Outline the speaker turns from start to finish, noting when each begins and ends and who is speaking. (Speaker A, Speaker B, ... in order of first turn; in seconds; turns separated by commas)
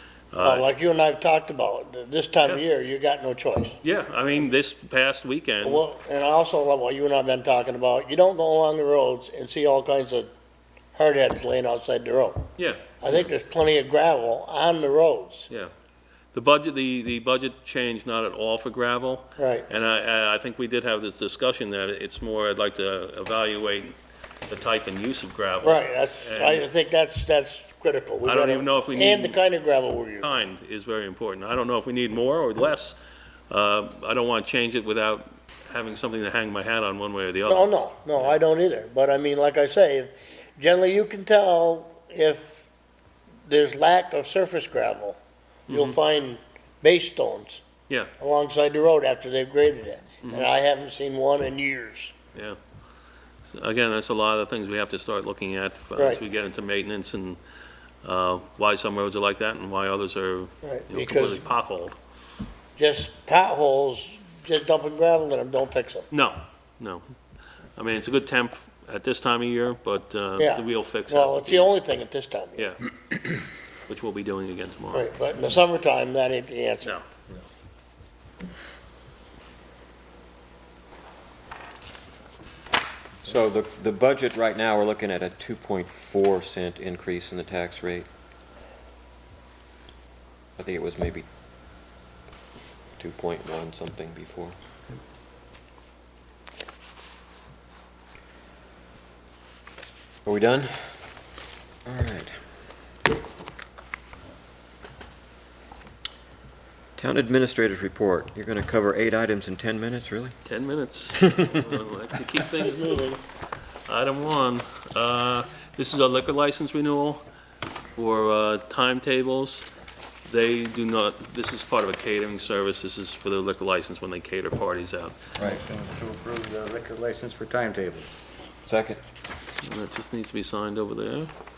Speaker A: 0.3-0.7, Speaker B: 0.4-3.8, Speaker A: 3.8-5.8, Speaker B: 5.6-10.3, Speaker B: 10.9-12.5, Speaker A: 12.6-13.3, Speaker B: 13.0-15.5, Speaker A: 16.3-23.9, Speaker B: 19.4-19.7, Speaker A: 24.5-26.7, Speaker B: 25.6-30.3, Speaker A: 28.2-29.4, Speaker A: 30.2-33.0, Speaker A: 33.5-38.4, Speaker B: 37.5-42.7, Speaker B: 43.5-45.2, Speaker A: 45.7-46.0, Speaker B: 45.7-47.6, Speaker B: 48.2-52.1, Speaker A: 50.2-50.5, Speaker A: 53.5-57.4, Speaker B: 56.0-56.2, Speaker A: 58.0-62.0, Speaker B: 60.6-61.5, Speaker B: 62.8-66.1, Speaker A: 66.1-67.1, Speaker A: 67.8-71.8, Speaker B: 70.4-72.7, Speaker A: 72.6-73.2, Speaker A: 73.9-75.1, Speaker B: 74.9-76.9, Speaker C: 83.2-88.1, Speaker C: 90.6-91.3, Speaker C: 93.0-94.6, Speaker C: 100.3-101.0, Speaker C: 101.9-102.4, Speaker C: 107.0-110.4, Speaker A: 110.5-113.2, Speaker A: 113.9-117.2, Speaker A: 118.0-119.7, Speaker A: 120.3-125.2, Speaker D: 125.4-128.1, Speaker C: 128.7-129.0, Speaker A: 129.6-131.3